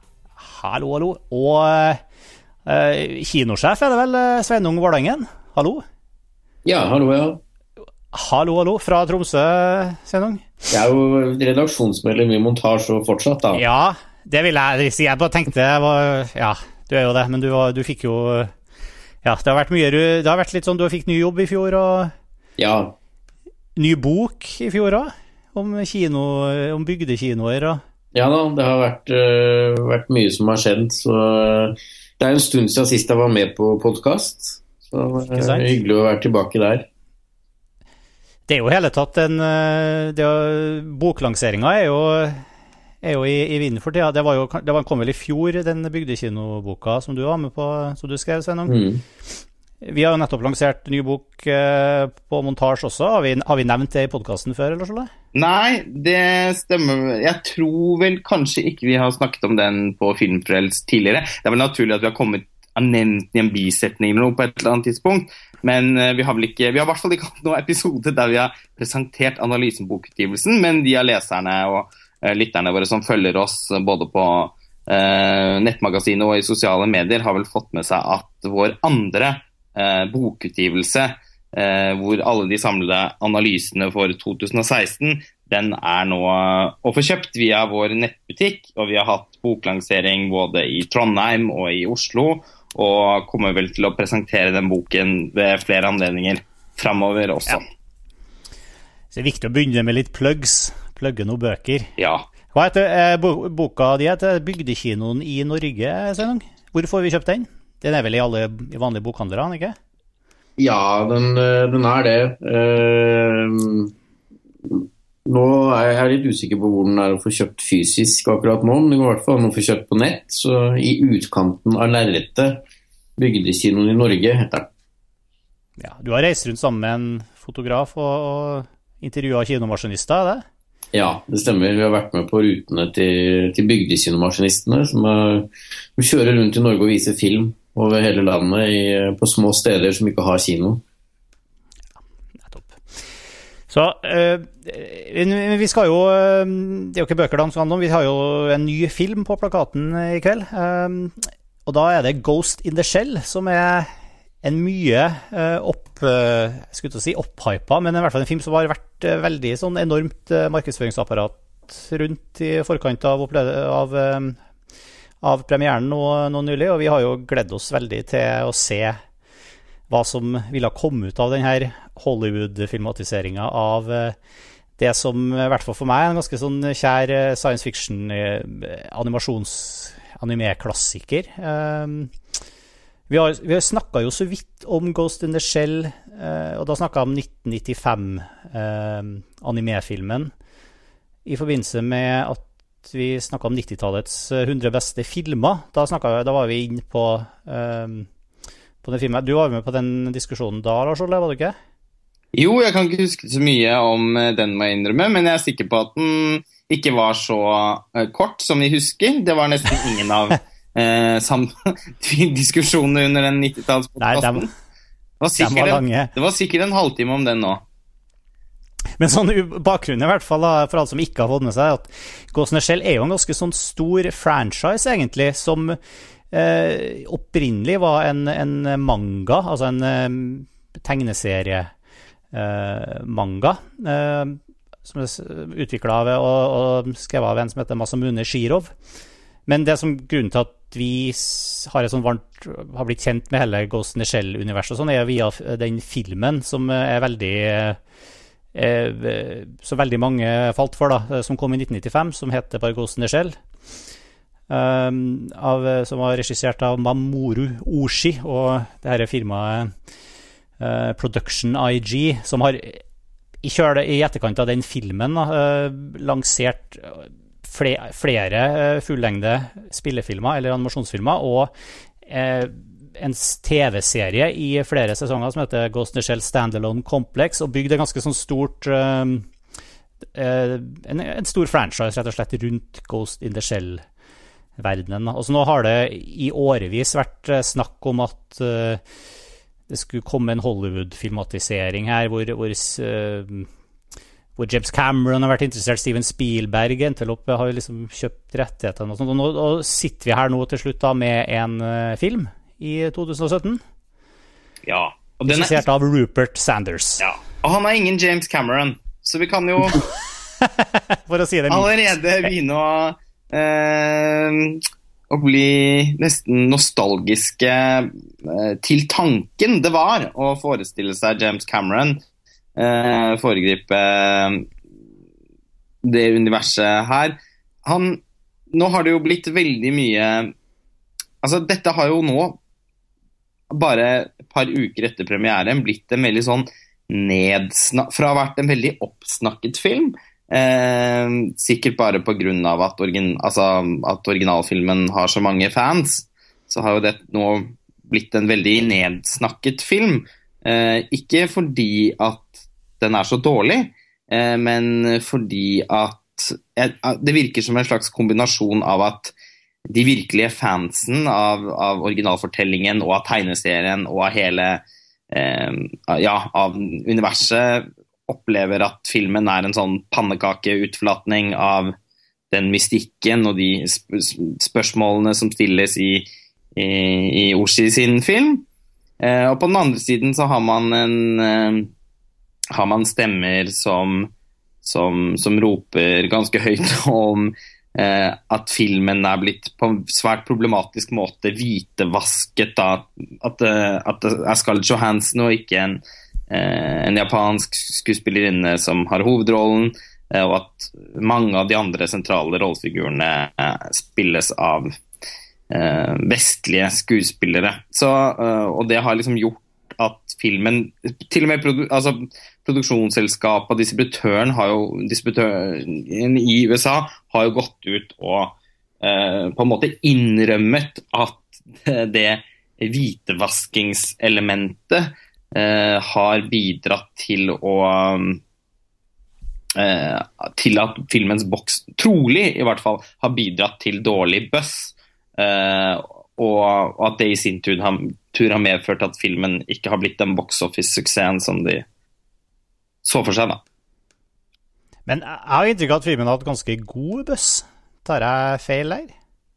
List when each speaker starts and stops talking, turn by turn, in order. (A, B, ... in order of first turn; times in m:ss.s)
0:00.4-0:02.0 A
0:02.7-0:05.8 A
0:06.6-0:07.4 B
0:08.1-0:10.4 A
0:10.7-0:13.6 B
0:13.5-0:18.5 A
0:19.2-0:22.1 A
0:22.6-0:23.0 B
0:23.8-0:27.8 A
0:28.1-0:36.9 B
0:35.3-0:35.7 A
0:38.5-0:42.4 A
0:43.0-0:48.8 A
0:48.7-0:49.0 B
0:49.8-0:55.1 A
0:55.3-1:37.6 C
1:39.1-1:41.9 A
1:42.0-1:42.3 C
1:42.5-1:49.8 A
1:50.6-1:53.9 B
1:54.7-2:02.6 B
2:03.2-2:04.7 B
2:05.8-2:10.4 A
2:10.9-2:20.8 B
2:22.5-2:22.8 A
2:23.7-2:33.9 A
2:34.4-2:44.4 A
2:45.2-2:49.0 A
2:49.9-2:54.2 A
2:54.8-3:02.1 A
3:03.1-3:10.3 A
3:11.3-3:18.1 A
3:18.8-3:21.6 A
3:22.3-3:34.5 C
3:34.0-3:34.5 A
3:35.2-3:37.6 C
3:35.4-3:36.1 A
3:39.0-3:45.8 A
3:46.3-3:51.7 A
3:52.3-3:58.7 A
3:59.5-4:07.8 A
4:08.5-4:13.4 A
4:14.5-4:19.7 A
4:20.6-4:22.8 A
4:23.4-4:31.5 A
4:32.1-4:39.3 A
4:40.2-4:43.8 A
4:44.6-4:48.8 A
4:49.7-4:53.5 A
4:54.4-5:03.6 A
5:04.7-5:05.6 C
5:05.3-5:07.0 A
5:07.0-5:09.9 C
5:10.4-5:12.3 A
5:11.5-5:22.0 C
5:22.6-5:24.5 C
5:25.8-5:30.3 C
5:31.2-5:32.4 C
5:33.5-5:59.2 C
5:59.7-6:11.8 C
6:12.3-6:18.5 C
6:19.0-6:21.7 C
6:22.5-6:24.1 C
6:24.6-6:44.7 C
6:45.5-7:08.2 C
7:09.6-7:21.6 C
7:22.8-7:23.4 C
7:24.9-7:28.9 A